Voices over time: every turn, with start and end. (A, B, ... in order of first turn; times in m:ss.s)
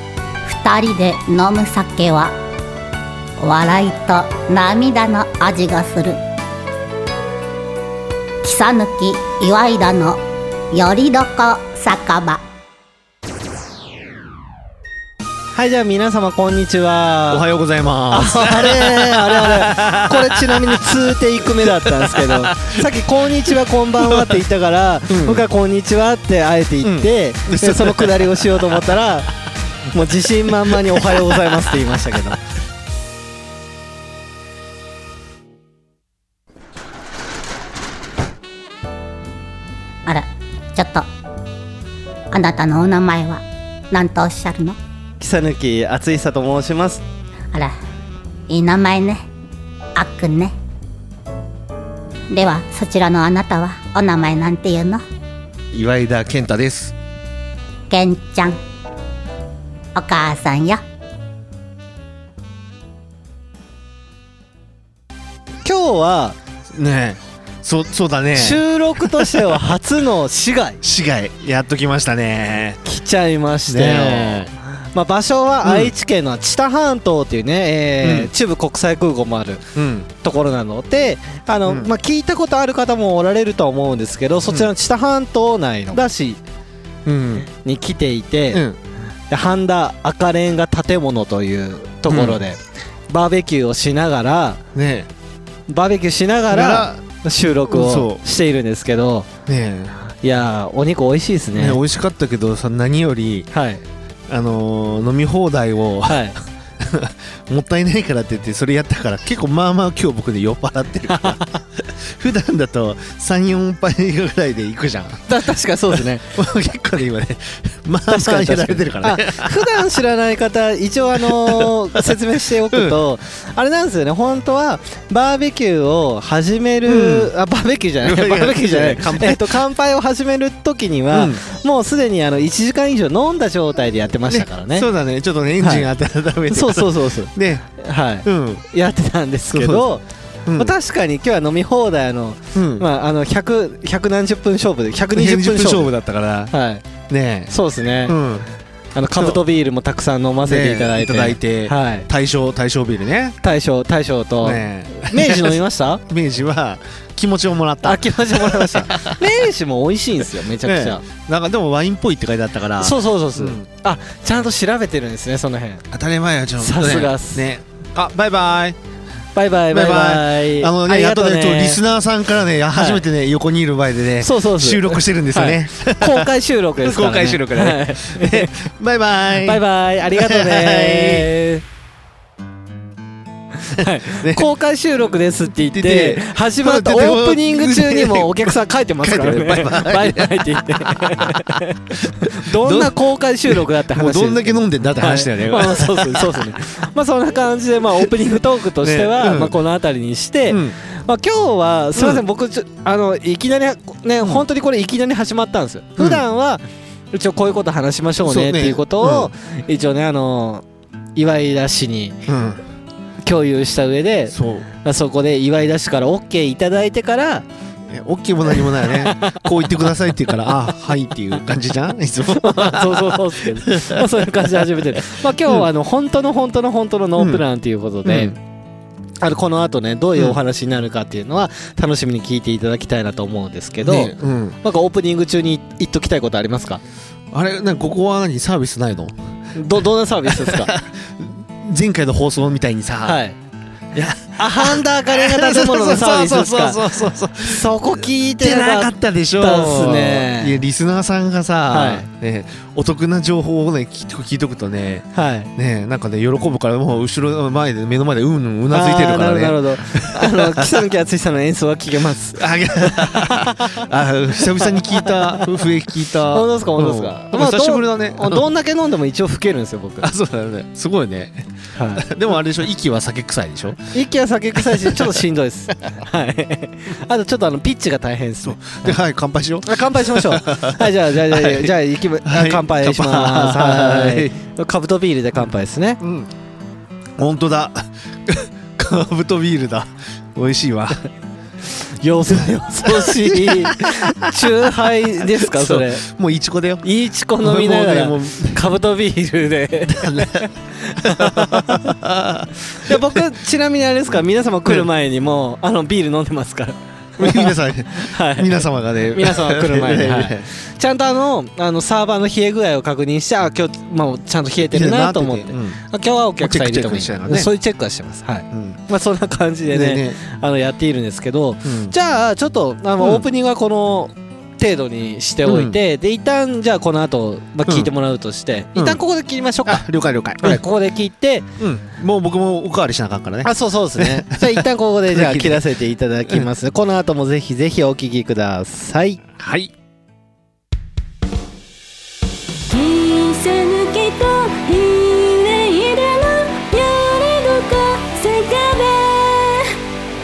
0:00.4-0:02.3 A
0:03.4-0:06.2 A
0:08.4-0:12.4 A
0:15.5-0:17.4 B
0:17.3-0:22.8 C
0:18.1-0:29.3 B
0:24.0-0:24.4 C
0:25.1-0:25.5 C
0:26.8-0:29.0 C
0:29.9-0:32.4 B
0:30.5-0:32.3 C
0:40.1-0:41.1 A
0:42.3-0:44.8 A
0:45.2-0:47.0 B
0:48.5-0:49.2 A
0:50.0-0:50.5 A
0:52.3-0:55.0 A
0:55.7-0:56.9 C
0:57.9-0:58.6 A
1:00.0-1:00.8 A
1:05.6-1:06.4 B
1:06.7-1:09.6 C
1:08.4-1:10.8 B
1:10.8-1:12.8 C
1:12.8-1:26.4 B
1:13.7-1:14.5 C
1:15.6-1:15.9 C
1:18.0-1:18.3 C
1:19.8-1:20.1 C
1:27.1-1:27.5 C
1:27.6-1:28.6 B
1:28.5-1:28.8 C
1:29.3-1:32.6 B
1:32.1-1:32.4 C
1:33.1-1:34.6 B
1:34.7-1:35.1 C
1:35.7-1:39.3 B
1:36.5-1:37.0 C
1:37.7-1:38.2 C
1:39.5-1:39.9 C
1:40.2-1:41.8 B
1:41.5-1:43.5 C
1:43.5-1:43.8 B
1:44.3-1:55.2 C
1:46.1-1:46.4 B
1:51.1-1:51.6 B
1:55.3-1:56.3 B
1:56.0-1:59.9 C
1:58.1-2:14.9 B
2:01.2-2:02.2 C
2:02.7-2:03.0 C
2:06.9-2:07.3 C
2:08.0-2:09.6 C
2:11.1-2:11.4 C
2:14.3-2:17.6 C
2:15.6-2:15.9 B
2:16.5-2:20.0 B
2:18.2-2:18.6 C
2:19.5-2:19.9 C
2:20.5-2:20.7 C
2:20.6-2:25.9 B
2:22.6-2:22.9 C
2:25.1-2:26.5 C
2:26.5-2:26.8 B
2:27.1-2:27.5 C
2:27.5-2:28.2 B
2:28.1-2:28.5 C
2:29.0-2:32.1 B
2:29.2-2:29.4 C
2:30.5-2:33.4 C
2:33.4-2:36.0 B
2:34.4-2:39.2 C
2:37.8-2:41.0 B
2:40.6-2:43.7 C
2:42.8-2:45.9 B
2:45.9-2:48.8 C
2:46.6-2:47.5 B
2:49.4-2:51.8 B
2:49.7-3:01.3 C
2:52.7-2:53.0 B
2:54.2-2:58.5 B
2:59.4-3:01.6 B
3:03.6-3:30.6 B
3:03.8-3:04.5 C
3:05.7-3:10.3 C
3:12.1-3:13.0 C
3:13.5-3:16.5 C
3:18.8-3:19.6 C
3:20.5-3:20.8 C
3:22.0-3:22.2 C
3:26.0-3:26.2 C
3:28.2-3:29.3 C
3:31.2-3:32.2 B
3:32.3-3:32.6 C
3:33.2-3:37.5 B
3:34.3-3:34.7 C
3:37.9-3:45.7 C
3:38.5-3:39.4 B
3:42.3-3:48.4 B
3:47.2-3:47.4 C
3:48.0-3:48.4 C
3:49.2-3:56.8 B
3:53.8-3:54.6 C
3:57.3-3:59.2 C
3:59.6-4:00.7 B
4:00.3-4:03.2 C
4:03.0-4:03.4 B
4:04.0-4:20.8 C
4:04.4-4:06.8 B
4:07.4-4:10.6 B
4:11.7-4:12.1 B
4:15.1-4:15.5 B
4:18.7-4:30.1 B
4:22.4-4:28.5 C
4:30.0-4:33.8 C
4:31.8-4:32.1 B
4:33.9-4:39.0 B
4:34.6-4:35.2 C
4:38.4-4:44.3 C
4:39.6-4:46.0 B
4:46.0-4:46.3 C
4:47.2-4:51.0 C
4:51.8-4:56.0 B
4:52.3-4:54.5 C
4:55.2-4:56.8 C
4:56.8-5:02.0 B
4:57.4-4:58.6 C
4:59.9-5:03.2 C
5:02.7-5:29.8 B
5:07.2-5:10.5 C
5:14.6-5:15.8 C
5:16.4-5:17.5 C
5:18.5-5:18.8 C
5:19.7-5:20.2 C
5:21.6-5:21.9 C
5:23.0-5:23.3 C
5:25.4-5:25.8 C
5:27.7-5:27.9 C
5:29.7-5:30.6 C
5:30.4-5:31.5 B
5:31.6-5:35.7 C
5:33.4-5:39.2 B
5:39.4-5:39.7 C
5:42.7-5:49.8 D